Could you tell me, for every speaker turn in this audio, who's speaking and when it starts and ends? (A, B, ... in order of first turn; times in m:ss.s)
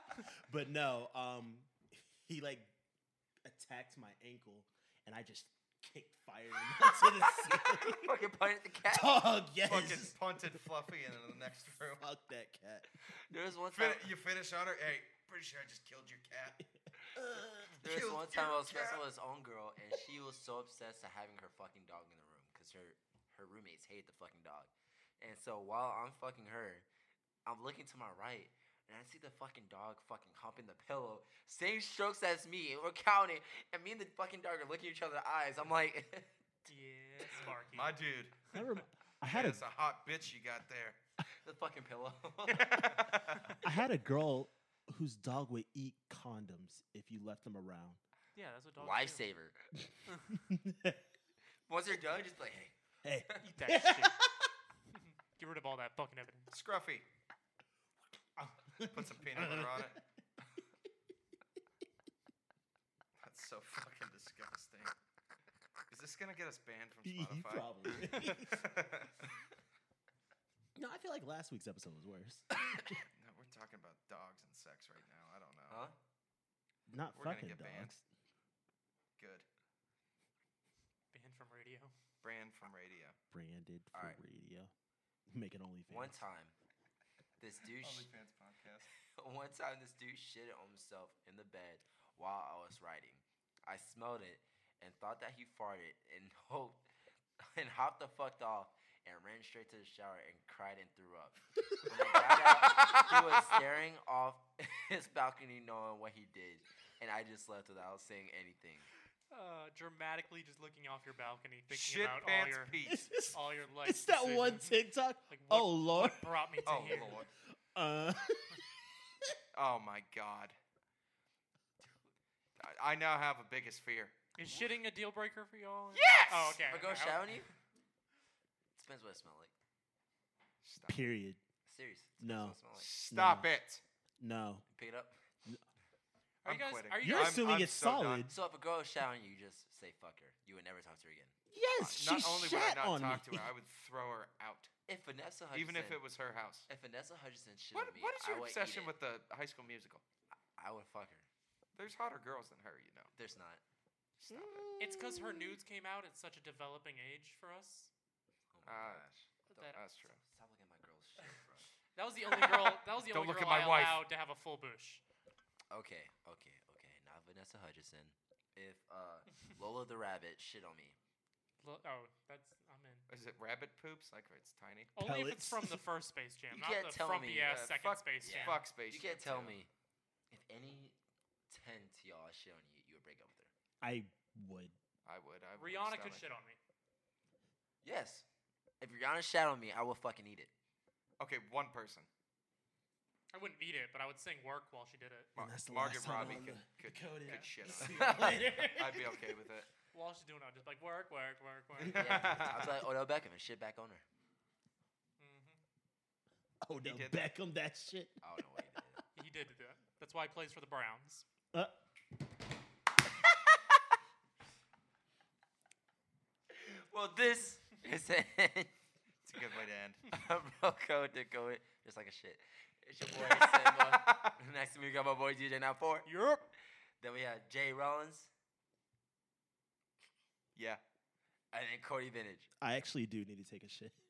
0:00.5-0:02.7 A
0:03.4-0:08.2 A
0:07.0-0:09.2 B
0:08.8-0:10.6 A
0:09.6-0:12.0 C
0:12.0-0:12.9 A
0:13.1-0:14.1 B
0:13.7-0:16.6 C
0:17.1-0:17.8 A
0:17.8-0:26.9 B
0:17.8-0:19.0 C
0:27.4-0:36.3 B
0:36.7-0:38.0 D
0:37.6-0:38.4 C
0:38.5-0:38.8 D
0:38.5-0:39.6 A
0:39.3-0:41.0 C
0:41.4-0:43.3 B
0:42.5-0:43.6 C
0:43.6-0:48.0 A
0:48.4-0:49.2 D
0:48.8-0:49.7 B
0:50.1-0:50.4 D
0:50.4-0:51.0 A
0:51.7-0:52.7 B
0:53.0-0:54.5 A
0:53.4-0:54.2 D
0:54.9-0:56.5 D
0:56.5-0:57.0 C
0:58.4-1:00.0 A
0:58.9-1:00.0 C
1:03.2-1:05.0 C
1:05.9-1:09.3 C
1:07.0-1:08.8 A
1:10.8-1:12.6 A
1:13.2-1:15.9 C
1:15.7-1:16.0 B
1:16.9-1:18.0 A
1:17.2-1:17.9 C
1:19.2-1:19.5 C
1:21.1-1:21.9 D
1:22.2-1:23.2 C
1:23.3-1:24.7 A
1:25.3-1:26.2 A
1:25.9-1:26.6 B
1:27.4-1:28.1 B
1:27.8-1:28.9 C
1:28.9-1:36.8 B
1:37.4-1:48.9 B
1:42.2-1:43.3 C
1:49.3-1:57.3 D
1:51.7-1:53.1 C
1:52.8-1:56.3 A
1:56.6-1:57.3 C
1:57.8-1:58.6 A
1:59.5-2:00.6 C
2:02.6-2:04.2 C
2:04.4-2:07.3 D
2:05.9-2:06.7 C
2:06.6-2:07.5 B
2:08.8-2:09.5 B
2:10.6-2:11.0 C
2:10.9-2:11.4 A
2:11.7-2:12.9 B
2:12.2-2:12.6 A
2:12.8-2:13.8 C
2:13.1-2:13.5 A
2:14.2-2:14.6 A
2:14.7-2:15.2 B
2:16.4-2:17.6 D
2:16.4-2:18.3 C
2:17.0-2:18.4 A
2:18.3-2:21.3 B
2:21.5-2:23.5 A
2:21.8-2:24.7 C
2:24.9-2:26.0 B
2:25.5-2:26.7 C
2:26.7-2:28.9 B
2:27.7-2:30.0 C
2:30.6-2:31.3 B
2:31.8-2:33.1 C
2:33.2-2:33.6 B
2:34.2-2:34.7 C
2:34.5-2:35.5 A
2:34.8-2:37.9 D
2:38.5-2:39.6 B
2:38.7-2:40.2 C
2:39.5-2:39.8 D
2:40.1-2:41.7 B
2:42.0-2:45.0 D
2:42.9-2:44.0 C
2:45.7-2:51.0 B
2:51.6-2:53.1 D
2:53.1-2:54.9 C
2:55.0-2:58.6 D
2:55.0-2:55.8 A
2:56.5-2:57.5 B
2:57.4-2:59.6 C
2:58.2-2:59.7 B
3:00.3-3:01.0 B
3:01.5-3:03.5 B
3:03.8-3:04.8 A
3:05.1-3:06.2 C
3:05.6-3:06.6 D
3:07.8-3:08.2 B
3:08.8-3:10.5 B
3:11.2-3:12.1 C
3:13.3-3:15.3 D
3:15.4-3:19.7 C
3:15.4-3:19.2 A
3:17.8-3:18.4 B
3:19.9-3:22.3 D
3:21.8-3:22.8 C
3:21.9-3:24.0 B
3:25.2-3:25.6 D
3:26.6-3:28.1 A
3:26.8-3:27.3 C
3:28.2-3:29.0 B
3:29.2-3:31.3 D
3:36.5-3:38.7 B
3:39.3-3:40.1 C
3:40.1-3:46.1 B
3:43.2-3:44.3 C
3:46.1-3:46.5 D
3:47.0-3:48.3 B
3:50.6-3:50.8 C
3:51.5-3:52.5 B
3:52.6-3:54.0 A